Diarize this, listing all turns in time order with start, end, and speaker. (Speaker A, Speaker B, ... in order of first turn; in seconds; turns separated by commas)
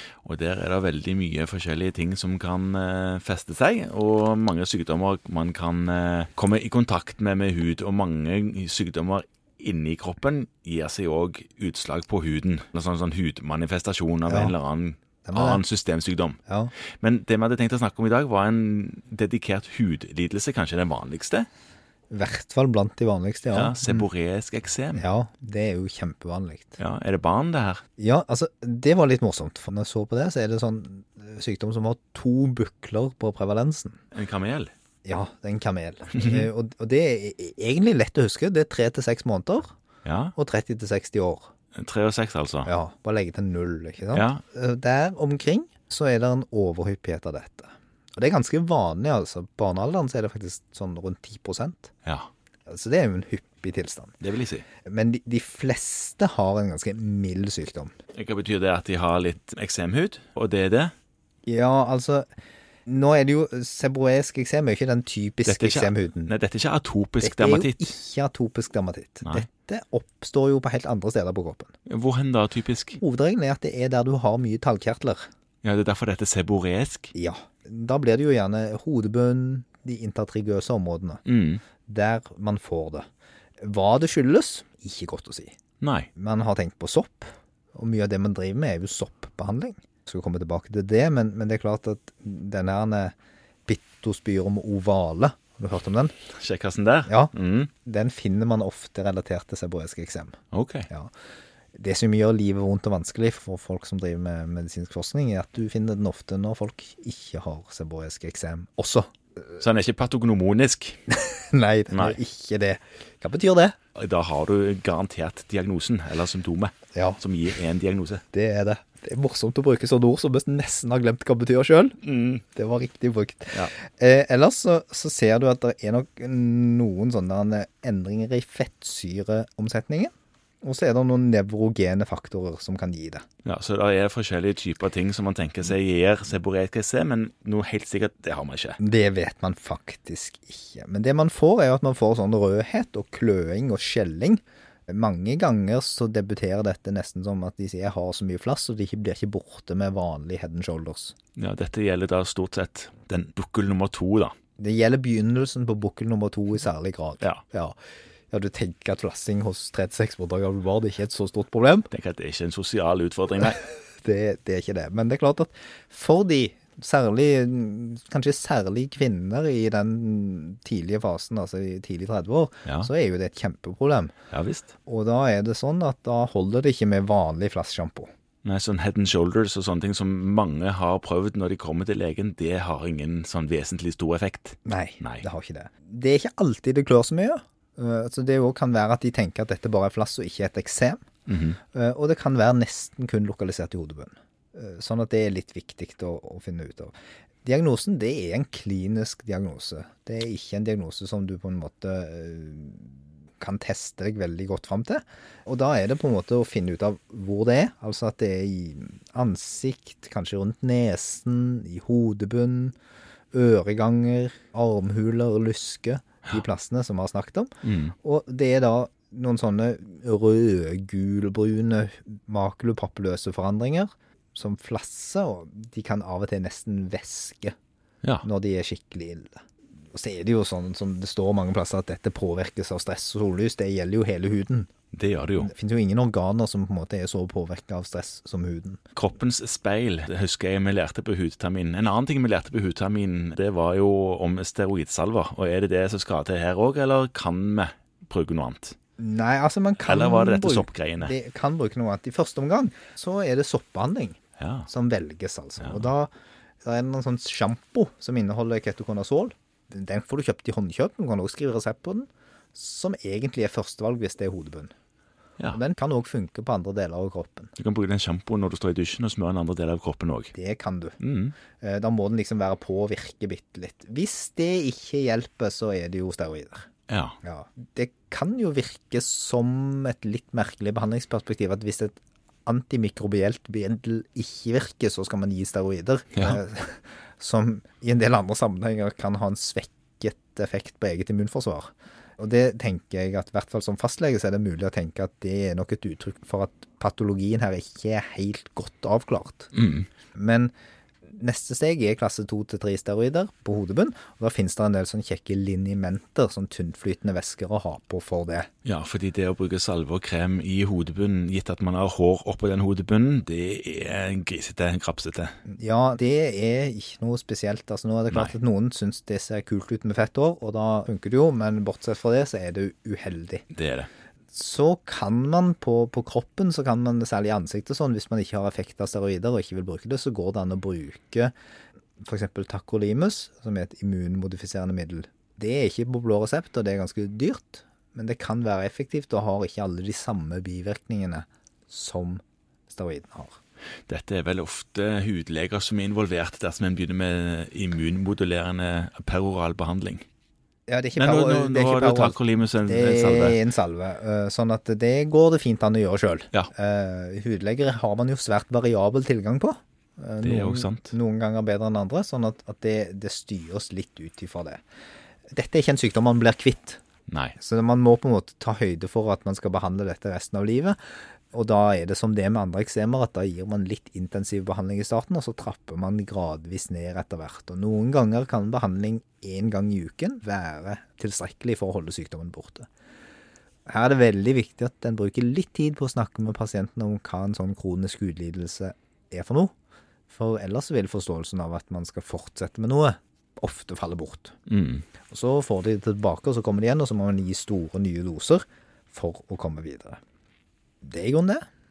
Speaker A: 0.2-21.5, Speaker B: 14.3-14.5, Speaker B: 15.2-15.6, Speaker B: 16.5-16.7, Speaker B: 22.1-24.1, Speaker A: 23.5-25.0, Speaker B: 24.9-26.8, Speaker A: 26.8-27.8, Speaker B: 28.0-34.0, Speaker A: 34.1-34.7, Speaker B: 35.0-39.7, Speaker A: 36.2-36.4, Speaker A: 40.0-40.3, Speaker B: 40.4-41.5, Speaker A: 41.8-42.7, Speaker B: 42.7-51.9, Speaker A: 44.1-44.4, Speaker B: 52.7-54.2, Speaker A: 54.2-54.6, Speaker B: 54.9-57.9, Speaker A: 58.1-60.9, Speaker B: 61.5-62.3, Speaker B: 62.9-66.3, Speaker A: 65.5-67.9, Speaker B: 67.2-71.7, Speaker A: 71.9-73.0, Speaker B: 73.0-75.2, Speaker A: 75.6-77.1, Speaker B: 77.1-81.2, Speaker A: 81.3-81.6, Speaker B: 81.9-83.1, Speaker B: 83.6-85.5, Speaker A: 85.8-86.1, Speaker B: 86.2-93.1, Speaker B: 93.7-96.1, Speaker A: 96.3-97.7, Speaker B: 97.1-97.3, Speaker B: 97.8-100.4, Speaker A: 100.5-100.9, Speaker B: 101.8-109.1, Speaker A: 109.6-111.0, Speaker B: 111.1-113.8, Speaker A: 111.9-112.2, Speaker A: 113.9-118.2, Speaker B: 116.9-117.2, Speaker B: 118.3-122.0, Speaker A: 122.0-122.4, Speaker B: 122.5-133.2, Speaker A: 133.4-138.8, Speaker B: 138.8-151.2, Speaker A: 151.4-154.3, Speaker B: 154.6-157.8, Speaker B: 158.3-161.9, Speaker A: 161.9-163.6, Speaker B: 163.4-174.1, Speaker A: 172.7-172.9, Speaker A: 174.3-174.7, Speaker B: 174.9-178.1, Speaker A: 178.4-185.2, Speaker B: 184.7-191.1, Speaker A: 191.3-191.6, Speaker B: 191.7-196.9, Speaker B: 197.4-212.8, Speaker B: 213.3-227.6, Speaker A: 217.6-217.9, Speaker B: 228.2-229.4, Speaker B: 229.9-234.7, Speaker A: 234.9-235.5, Speaker B: 235.4-238.8, Speaker A: 238.9-248.8, Speaker B: 249.0-256.1, Speaker A: 249.8-251.1, Speaker A: 254.4-254.7, Speaker A: 255.6-255.9, Speaker B: 256.6-264.7, Speaker B: 265.5-267.5, Speaker A: 267.6-270.3, Speaker B: 270.3-271.0, Speaker A: 271.0-271.4, Speaker B: 271.6-276.7, Speaker A: 276.9-277.2, Speaker B: 277.2-299.5, Speaker A: 299.5-299.9, Speaker B: 300.1-300.5, Speaker B: 301.1-308.5, Speaker A: 308.6-315.3, Speaker B: 315.5-323.5, Speaker A: 318.1-318.4, Speaker A: 323.5-323.9, Speaker B: 324.3-331.3, Speaker B: 332.0-343.4, Speaker A: 343.9-350.1, Speaker B: 350.7-364.6, Speaker A: 351.0-353.4, Speaker A: 360.2-360.9, Speaker B: 365.3-366.8, Speaker A: 367.1-367.4, Speaker B: 367.4-370.8, Speaker B: 371.3-382.7, Speaker B: 383.7-389.5, Speaker B: 390.1-394.4, Speaker A: 394.5-394.9, Speaker B: 395.1-400.0, Speaker B: 400.8-401.5